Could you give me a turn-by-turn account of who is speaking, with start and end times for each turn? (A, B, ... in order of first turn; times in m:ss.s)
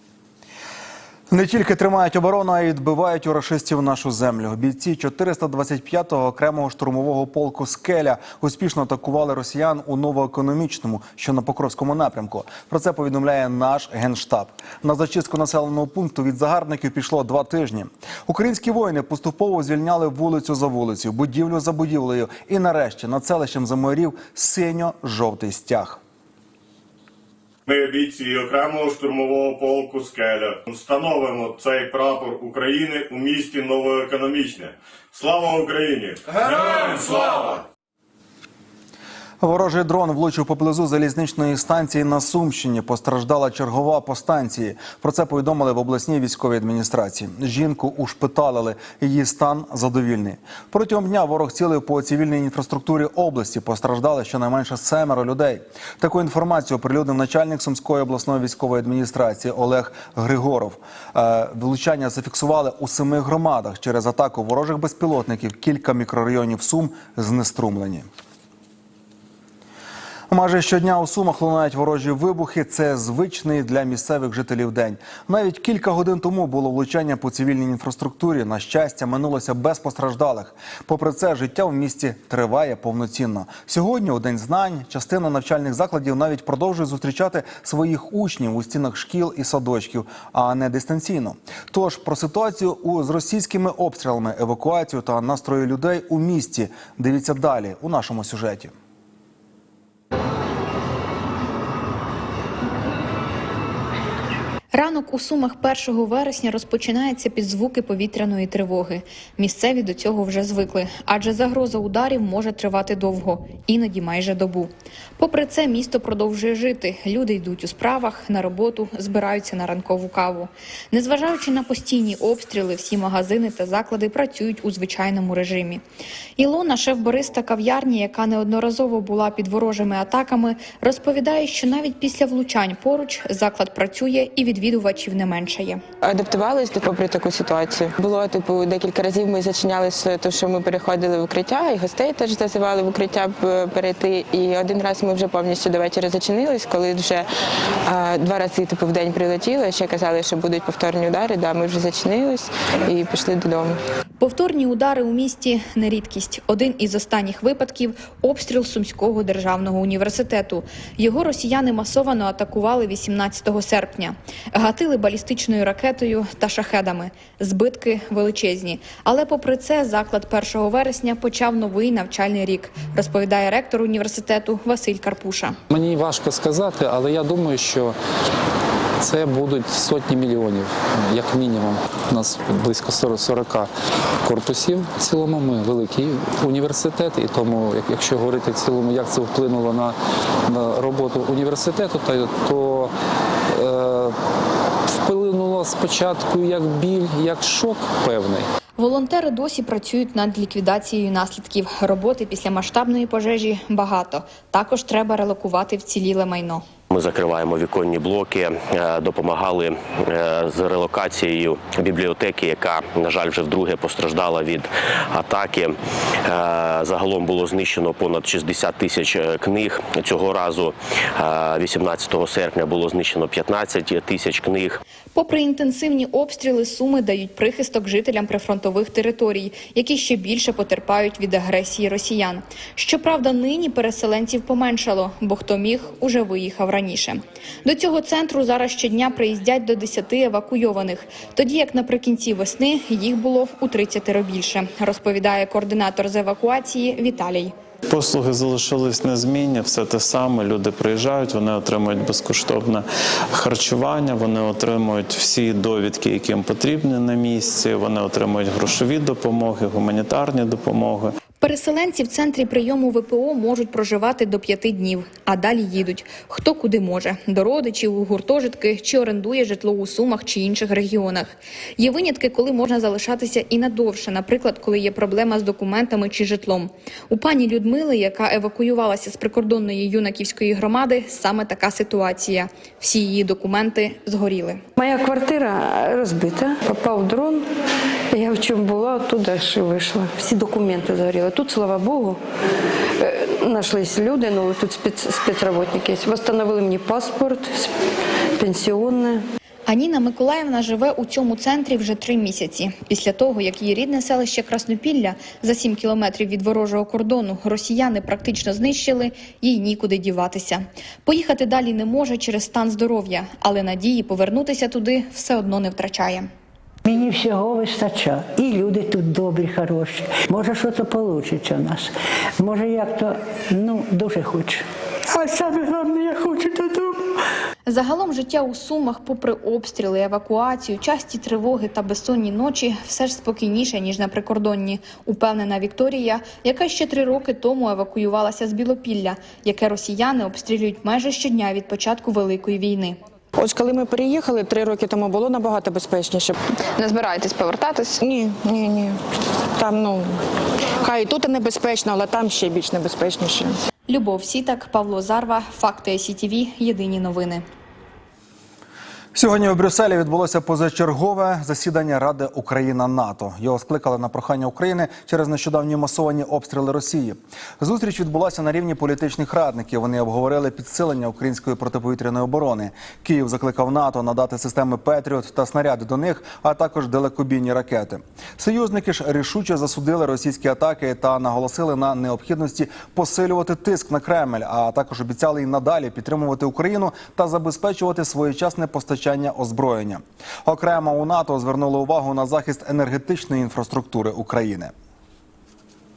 0:01.3-0:26.0 A
0:27.7-0:37.4 B
0:36.5-0:37.1 C
0:39.4-1:08.1 A
1:10.3-1:38.7 A
1:44.7-2:05.8 D
2:06.4-2:15.8 D
2:16.1-2:27.2 E
2:27.9-2:33.7 E
2:34.2-2:55.6 D
2:55.7-2:58.0 F
2:59.0-3:03.7 F
3:04.2-3:12.9 F
3:13.5-3:14.2 F
3:14.9-3:18.5 F
3:18.8-3:26.6 D
3:26.9-3:44.8 C
3:45.1-4:07.5 D
4:07.9-4:21.2 G
4:21.4-4:44.6 D
4:44.8-4:47.4 H
4:48.1-4:52.2 H
4:53.0-4:57.7 H
4:58.4-4:59.2 H
4:59.7-5:16.3 D
5:16.8-5:26.9 I
5:27.6-5:43.0 D
5:47.3-5:47.6 D
5:53.9-5:57.4 D
5:59.1-6:34.7 A